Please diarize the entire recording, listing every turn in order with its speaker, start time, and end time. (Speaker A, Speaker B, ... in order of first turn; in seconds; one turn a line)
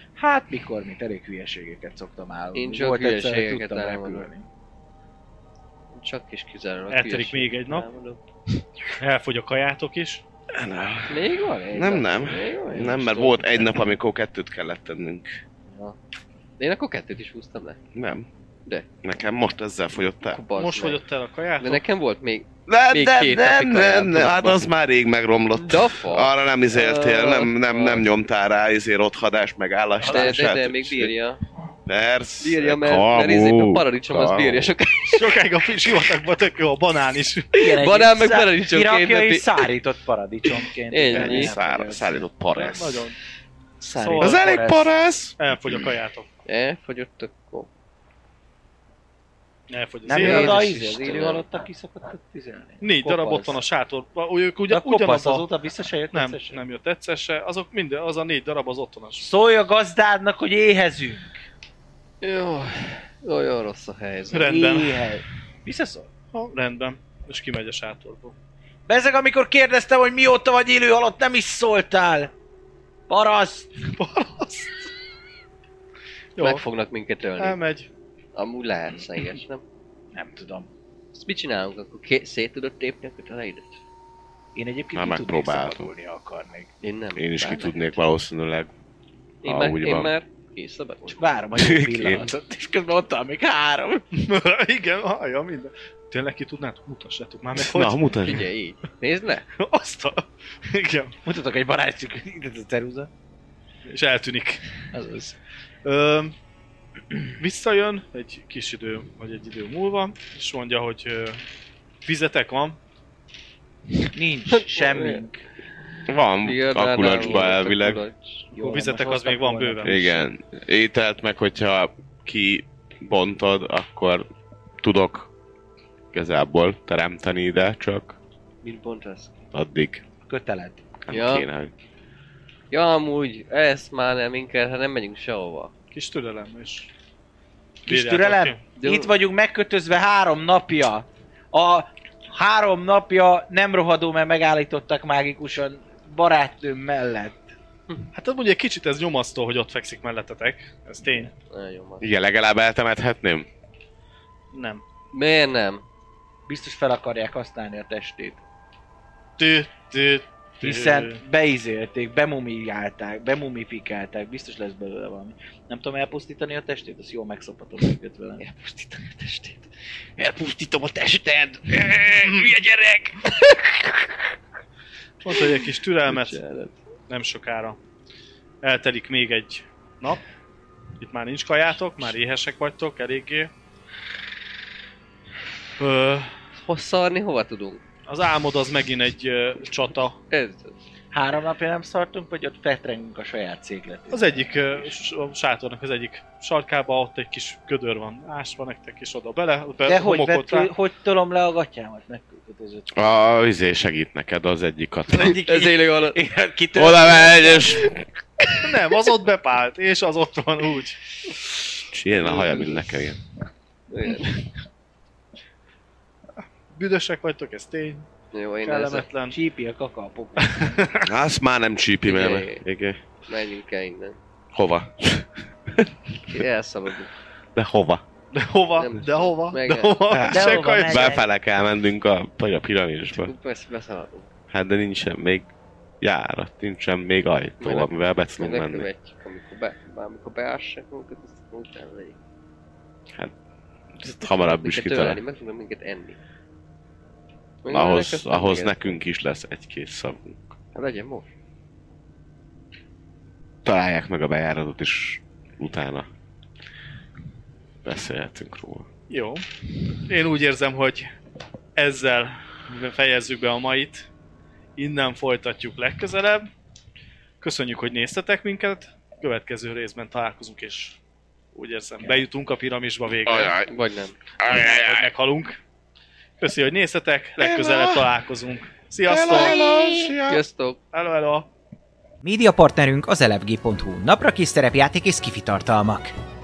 Speaker A: 0.2-4.5
Speaker B: 2.5-4.3
Speaker B: 5.9-8.2
Speaker C: 6.9-7.9
Speaker C: 9.0-10.2
Speaker D: 10.5-15.4
Speaker B: 11.1-13.8
Speaker B: 15.7-16.0
Speaker B: 16.6-17.8
Speaker D: 17.9-18.3
Speaker D: 19.0-20.4
Speaker B: 20.3-21.0
Speaker C: 20.5-21.8
Speaker B: 21.6-24.7
Speaker D: 22.7-31.1
Speaker B: 25.6-28.1
Speaker A: 30.0-30.3
Speaker B: 30.0-31.4
Speaker D: 31.9-34.7
Speaker B: 32.4-35.3
Speaker C: 35.1-37.5
Speaker B: 37.5-39.7
Speaker A: 37.6-42.2
Speaker B: 40.9-41.5
Speaker D: 41.1-43.0
Speaker C: 42.5-43.2
Speaker A: 43.8-44.9
Speaker C: 43.8-44.4
Speaker D: 44.2-45.8
Speaker C: 45.4-46.3
Speaker B: 46.5-47.7
Speaker C: 49.7-50.7
Speaker A: 50.1-53.6
Speaker B: 50.1-51.4
Speaker C: 52.8-55.5
Speaker A: 54.7-56.6
Speaker C: 56.1-59.3
Speaker A: 59.2-61.4
Speaker B: 62.2-64.6
Speaker C: 64.3-65.0
Speaker A: 64.5-66.1
Speaker C: 66.3-68.3
Speaker A: 68.9-72.3
Speaker A: 73.1-73.8
Speaker C: 73.9-74.9
Speaker C: 76.4-76.6
Speaker B: 76.4-77.6
Speaker C: 77.4-77.9
Speaker B: 78.4-79.6
Speaker A: 80.1-80.7
Speaker B: 81.1-83.8
Speaker A: 84.5-86.7
Speaker D: 84.9-85.9
Speaker B: 86.8-88.0
Speaker D: 87.2-88.7
Speaker B: 89.4-91.4
Speaker D: 89.4-90.1
Speaker A: 91.1-94.1
Speaker D: 91.5-92.3
Speaker C: 94.2-98.2
Speaker D: 97.5-98.5
Speaker B: 98.2-99.5
Speaker C: 99.6-101.1
Speaker A: 101.2-103.1
Speaker C: 103.9-104.9
Speaker A: 104.9-105.4
Speaker C: 105.8-106.3
Speaker C: 107.4-111.4
Speaker C: 112.0-112.8
Speaker A: 114.1-115.4
Speaker B: 114.5-115.2
Speaker D: 116.1-118.0
Speaker B: 116.4-118.5
Speaker C: 118.5-120.0
Speaker A: 118.5-120.3
Speaker D: 119.8-124.3
Speaker D: 124.8-125.3
Speaker D: 126.1-128.2
Speaker B: 128.6-129.3
Speaker D: 129.5-130.0
Speaker A: 130.2-130.8
Speaker D: 131.1-131.7
Speaker B: 131.1-131.5
Speaker B: 132.7-135.7
Speaker C: 135.9-136.9
Speaker A: 137.8-147.5
Speaker C: 137.9-138.6
Speaker B: 138.8-139.2
Speaker C: 148.1-151.3
Speaker B: 151.5-152.1
Speaker D: 152.0-153.5
Speaker C: 154.5-154.8
Speaker B: 155.1-155.8
Speaker A: 156.5-158.4
Speaker C: 159.4-161.2
Speaker A: 160.6-168.4
Speaker B: 168.4-169.7
Speaker A: 170.2-172.9
Speaker B: 171.8-173.8
Speaker C: 172.1-172.6
Speaker C: 175.2-176.4
Speaker B: 176.1-176.8
Speaker C: 177.1-177.8
Speaker C: 178.6-180.2
Speaker C: 181.0-183.5
Speaker C: 185.8-186.3
Speaker B: 186.6-187.8
Speaker C: 188.1-190.2
Speaker B: 190.3-190.8
Speaker A: 191.1-194.9
Speaker C: 194.1-200.7
Speaker A: 199.8-203.2
Speaker D: 202.9-205.4
Speaker A: 205.1-207.9
Speaker B: 205.2-206.2
Speaker D: 206.7-208.0
Speaker C: 208.6-211.2
Speaker D: 211.9-213.2
Speaker B: 212.2-213.0
Speaker B: 213.9-214.4
Speaker C: 216.7-218.1
Speaker B: 218.3-219.1
Speaker C: 218.6-219.4
Speaker A: 219.3-220.9
Speaker C: 220.4-221.1
Speaker D: 221.1-223.0
Speaker B: 222.1-222.6
Speaker B: 223.3-224.2
Speaker D: 224.5-226.4
Speaker B: 226.2-227.1
Speaker D: 227.6-228.0
Speaker C: 228.3-231.1
Speaker B: 228.8-230.0
Speaker D: 230.1-233.3
Speaker A: 230.3-231.2
Speaker B: 233.1-234.3
Speaker D: 234.5-235.5
Speaker D: 236.0-238.9
Speaker B: 237.6-242.2
Speaker D: 244.0-245.2
Speaker B: 244.1-246.2
Speaker B: 247.6-249.0
Speaker D: 247.7-250.6
Speaker B: 250.7-251.3
Speaker D: 253.6-256.1
Speaker D: 257.8-258.9
Speaker C: 259.1-259.4
Speaker C: 260.1-261.1
Speaker C: 261.8-264.1
Speaker C: 264.8-266.5
Speaker C: 267.4-271.0
Speaker C: 271.6-273.6
Speaker D: 273.3-273.7
Speaker B: 273.7-274.1
Speaker D: 274.4-275.1
Speaker C: 274.4-275.6
Speaker C: 276.4-279.6
Speaker D: 277.4-278.0
Speaker D: 279.1-280.4
Speaker B: 279.3-280.8
Speaker C: 280.9-281.5
Speaker E: 282.2-286.1